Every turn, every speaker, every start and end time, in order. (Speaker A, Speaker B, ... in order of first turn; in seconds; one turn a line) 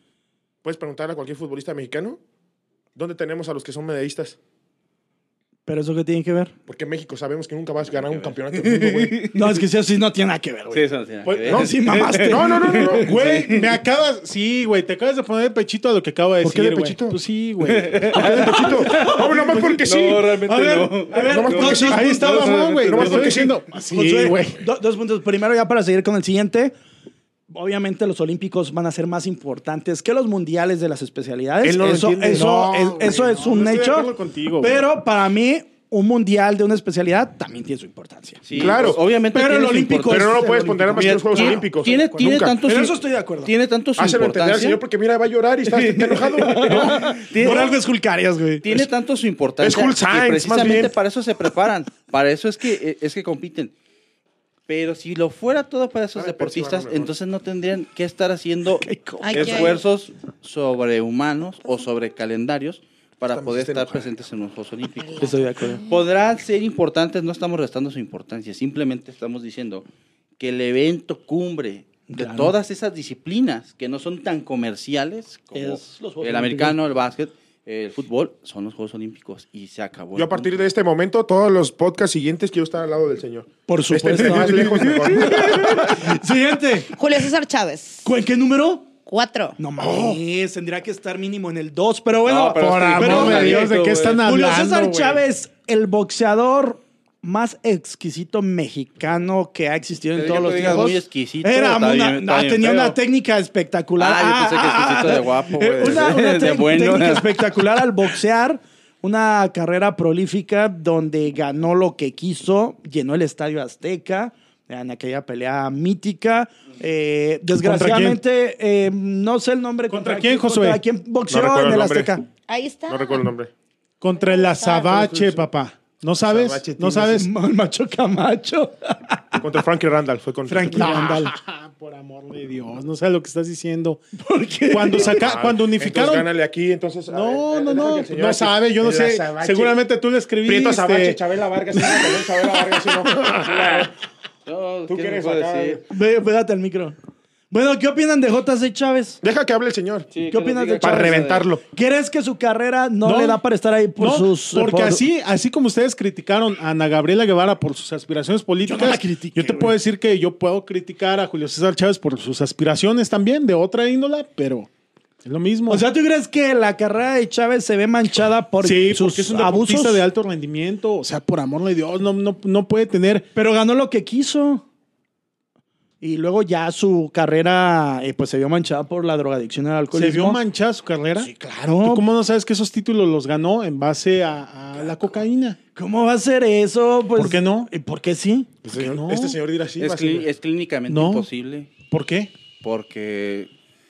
Speaker A: 0.6-2.2
Speaker A: 2.9-4.4
Speaker B: 5.7-6.5
Speaker A: 6.7-9.2
Speaker C: 8.0-9.6
Speaker B: 9.3-10.8
Speaker C: 10.7-13.7
Speaker D: 11.2-11.7
Speaker B: 11.5-12.9
Speaker A: 12.2-13.2
Speaker D: 12.9-18.8
Speaker A: 16.4-17.2
Speaker C: 17.6-19.3
Speaker A: 18.1-20.3
Speaker B: 18.8-19.8
Speaker C: 19.8-23.3
Speaker B: 20.4-23.3
Speaker A: 21.1-22.3
Speaker D: 21.7-24.6
Speaker A: 22.8-23.6
Speaker B: 23.9-26.7
Speaker B: 27.5-41.6
Speaker A: 31.6-33.2
Speaker D: 32.3-34.8
Speaker C: 38.5-40.4
Speaker A: 38.5-39.0
Speaker A: 40.1-42.5
Speaker C: 40.9-44.8
Speaker B: 42.6-43.5
Speaker A: 44.0-47.6
Speaker C: 45.7-47.8
Speaker B: 45.7-48.8
Speaker C: 48.6-53.7
Speaker A: 49.6-50.9
Speaker C: 54.7-69.8
Speaker A: 56.1-57.1
Speaker B: 58.8-59.8
Speaker E: 59.2-59.8
Speaker A: 63.3-64.1
Speaker E: 65.0-65.9
Speaker B: 65.2-65.8
Speaker C: 70.4-80.6
Speaker B: 72.1-72.5
Speaker B: 75.5-76.8
Speaker A: 80.1-86.0
Speaker B: 83.7-86.9
Speaker E: 86.9-88.1
Speaker B: 88.0-88.9
Speaker E: 89.0-89.6
Speaker B: 89.6-122.2
Speaker A: 89.8-90.2
Speaker C: 92.2-94.2
Speaker D: 92.5-95.2
Speaker C: 100.2-103.0
Speaker C: 104.0-107.6
Speaker D: 117.5-118.2
Speaker D: 119.9-120.8
Speaker A: 121.3-122.1
Speaker E: 122.5-123.2
Speaker A: 122.9-123.5
Speaker D: 124.0-127.3
Speaker E: 124.2-125.1
Speaker A: 125.0-125.4
Speaker A: 126.2-127.2
Speaker B: 127.1-129.4
Speaker A: 129.4-131.1
Speaker B: 130.5-131.3
Speaker D: 130.7-134.0
Speaker B: 134.2-135.2
Speaker D: 134.7-136.3
Speaker A: 135.0-139.8
Speaker D: 137.1-141.2
Speaker A: 140.4-143.9
Speaker C: 143.5-143.9
Speaker C: 144.4-145.8
Speaker A: 144.9-145.8
Speaker B: 145.9-146.9
Speaker B: 147.5-149.2
Speaker A: 149.2-150.1
Speaker C: 150.1-151.5
Speaker B: 150.3-155.0
Speaker A: 150.8-151.6
Speaker D: 153.0-153.4
Speaker D: 154.0-164.7
Speaker B: 158.7-159.7
Speaker D: 165.2-165.8
Speaker B: 165.7-170.0
Speaker D: 168.6-173.2
Speaker B: 173.3-174.6
Speaker B: 176.0-180.4
Speaker D: 179.9-181.3
Speaker B: 181.2-182.1
Speaker D: 181.8-185.6
Speaker B: 185.7-188.5
Speaker D: 187.2-187.7
Speaker A: 188.6-190.3
Speaker D: 188.7-189.4
Speaker C: 189.8-191.7
Speaker D: 190.9-191.3
Speaker D: 191.9-192.3
Speaker C: 192.6-193.5